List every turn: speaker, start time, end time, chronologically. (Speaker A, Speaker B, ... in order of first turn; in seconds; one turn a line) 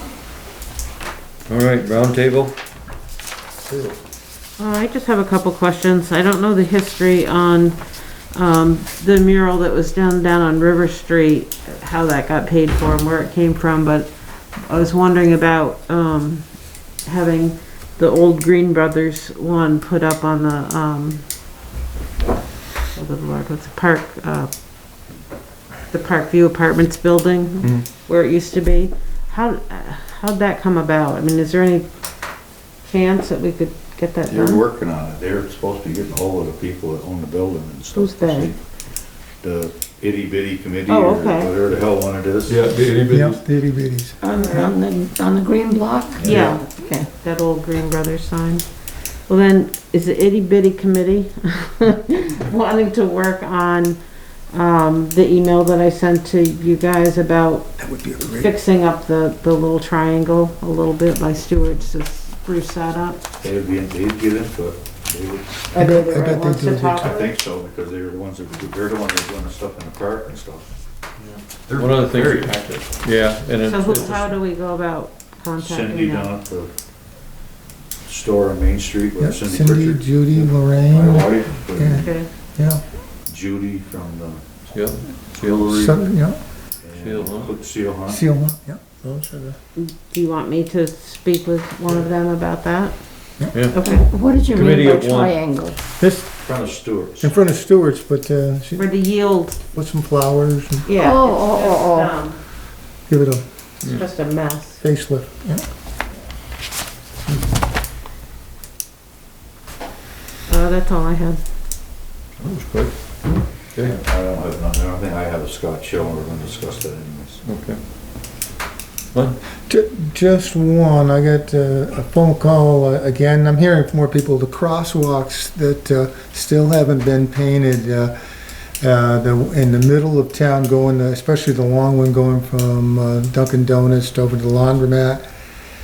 Speaker A: 1.5-2.5
Speaker B: 4.6-7.8
Speaker B: 8.3-16.4
Speaker B: 17.0-21.2
Speaker B: 22.9-24.5
Speaker B: 25.9-31.9
Speaker C: 27.6-27.9
Speaker B: 32.8-34.6
Speaker D: 34.2-38.6
Speaker B: 37.9-38.5
Speaker D: 39.3-42.6
Speaker B: 40.9-41.5
Speaker C: 42.5-43.4
Speaker E: 43.1-44.2
Speaker F: 44.2-47.1
Speaker B: 44.3-44.8
Speaker B: 46.2-48.6
Speaker D: 46.2-46.5
Speaker C: 46.2-46.5
Speaker B: 49.3-54.0
Speaker B: 54.5-63.2
Speaker E: 57.8-58.5
Speaker D: 63.4-65.7
Speaker B: 65.7-67.3
Speaker E: 65.8-67.2
Speaker D: 67.0-70.7
Speaker A: 71.2-74.3
Speaker C: 71.7-73.1
Speaker B: 73.6-76.3
Speaker D: 75.6-76.7
Speaker D: 78.0-82.2
Speaker E: 79.2-82.8
Speaker B: 81.9-82.3
Speaker D: 83.2-86.0
Speaker A: 84.7-85.9
Speaker E: 85.7-86.4
Speaker D: 86.8-88.2
Speaker A: 87.0-87.5
Speaker E: 88.0-89.6
Speaker B: 89.8-94.1
Speaker F: 93.8-95.8
Speaker A: 94.5-95.4
Speaker E: 96.0-96.3
Speaker D: 96.4-97.3
Speaker E: 97.2-98.9
Speaker B: 98.8-99.6
Speaker E: 99.7-100.9
Speaker B: 100.8-102.4
Speaker F: 100.9-102.1
Speaker E: 103.1-103.4
Speaker B: 103.8-104.8
Speaker E: 104.8-105.6
Speaker B: 110.5-111.4
Speaker A: 112.4-113.0
Speaker A: 113.7-114.0
Speaker D: 113.8-117.4
Speaker A: 117.4-117.8
Speaker A: 119.1-119.4
Speaker E: 119.7-128.1
Speaker E: 128.8-135.2